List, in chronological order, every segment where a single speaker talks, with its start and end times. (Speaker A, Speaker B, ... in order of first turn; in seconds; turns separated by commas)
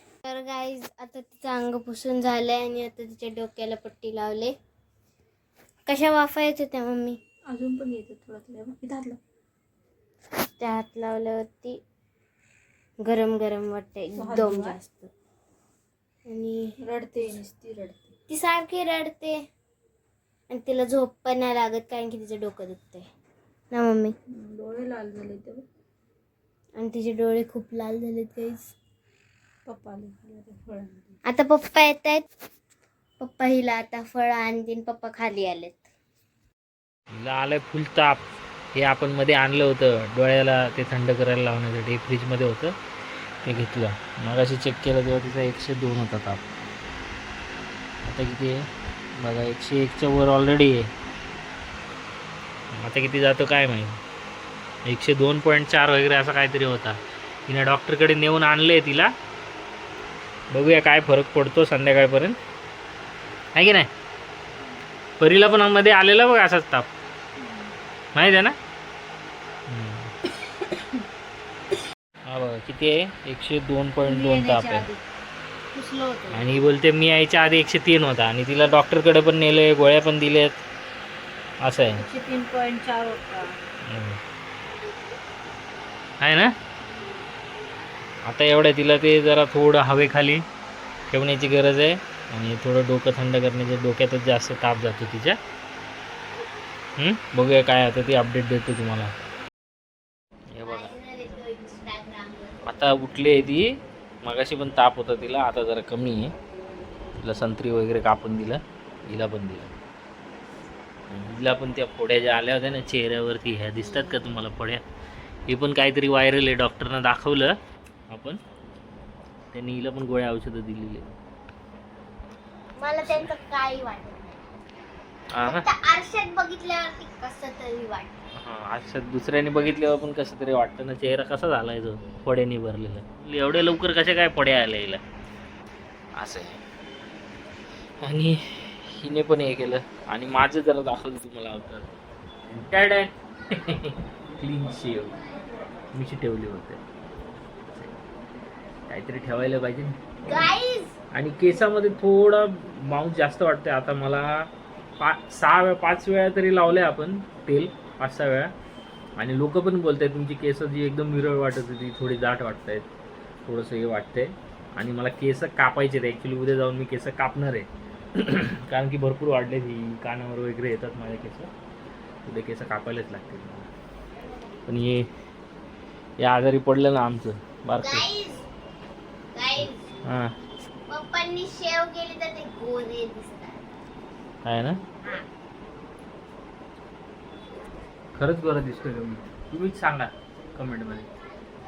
Speaker A: 0.2-4.5, Speaker A: 5.9-7.2, Speaker B: 7.5-9.2, Speaker A: 10.3-11.8, Speaker A: 13.0-15.1, Speaker B: 14.2-14.8, Speaker A: 16.3-16.7, Speaker B: 16.8-18.1, Speaker A: 18.3-19.4, Speaker A: 20.5-23.1, Speaker A: 23.7-24.1, Speaker B: 24.3-25.6, Speaker A: 26.8-28.7, Speaker B: 29.7-31.1, Speaker A: 31.3-32.2, Speaker A: 33.2-35.9, Speaker C: 37.1-42.7, Speaker C: 43.4-46.5, Speaker C: 48.1-48.6, Speaker C: 49.2-50.9, Speaker C: 52.8-54.0, Speaker C: 54.9-59.1, Speaker C: 60.5-62.4, Speaker C: 63.5-63.9, Speaker C: 65.2-66.9, Speaker B: 67.4-67.7, Speaker C: 68.2-68.6, Speaker C: 69.7-70.1, Speaker C: 72.3-74.9, Speaker B: 74.0-75.0, Speaker B: 75.7-76.5, Speaker C: 76.3-80.6, Speaker C: 81.6-82.0, Speaker B: 82.0-83.6, Speaker C: 83.9-84.2, Speaker C: 86.2-86.5, Speaker C: 88.2-90.5, Speaker C: 91.1-95.4, Speaker C: 97.0-99.2, Speaker C: 100.5-100.9, Speaker A: 100.6-102.9, Speaker C: 102.6-103.7, Speaker C: 104.2-106.3, Speaker C: 107.2-109.7, Speaker C: 111.1-114.8, Speaker A: 113.8-114.4, Speaker C: 115.5-117.5, Speaker C: 118.1-118.4, Speaker C: 119.5-121.1, Speaker A: 122.8-124.4, Speaker C: 123.1-123.3, Speaker C: 125.3-125.7, Speaker A: 125.4-128.1, Speaker C: 128.4-135.0, Speaker C: 136.2-136.6, Speaker C: 138.0-141.9, Speaker C: 142.5-145.2, Speaker C: 145.9-146.8, Speaker C: 148.9-150.5, Speaker A: 150.3-150.9, Speaker C: 151.1-158.5, Speaker C: 159.2-162.9, Speaker C: 163.5-171.5, Speaker C: 172.2-173.7, Speaker C: 174.7-175.1, Speaker C: 176.2-178.1, Speaker A: 177.8-178.4, Speaker A: 179.3-179.9, Speaker C: 180.1-180.3, Speaker A: 180.9-183.6, Speaker C: 184.4-184.8, Speaker C: 188.2-191.1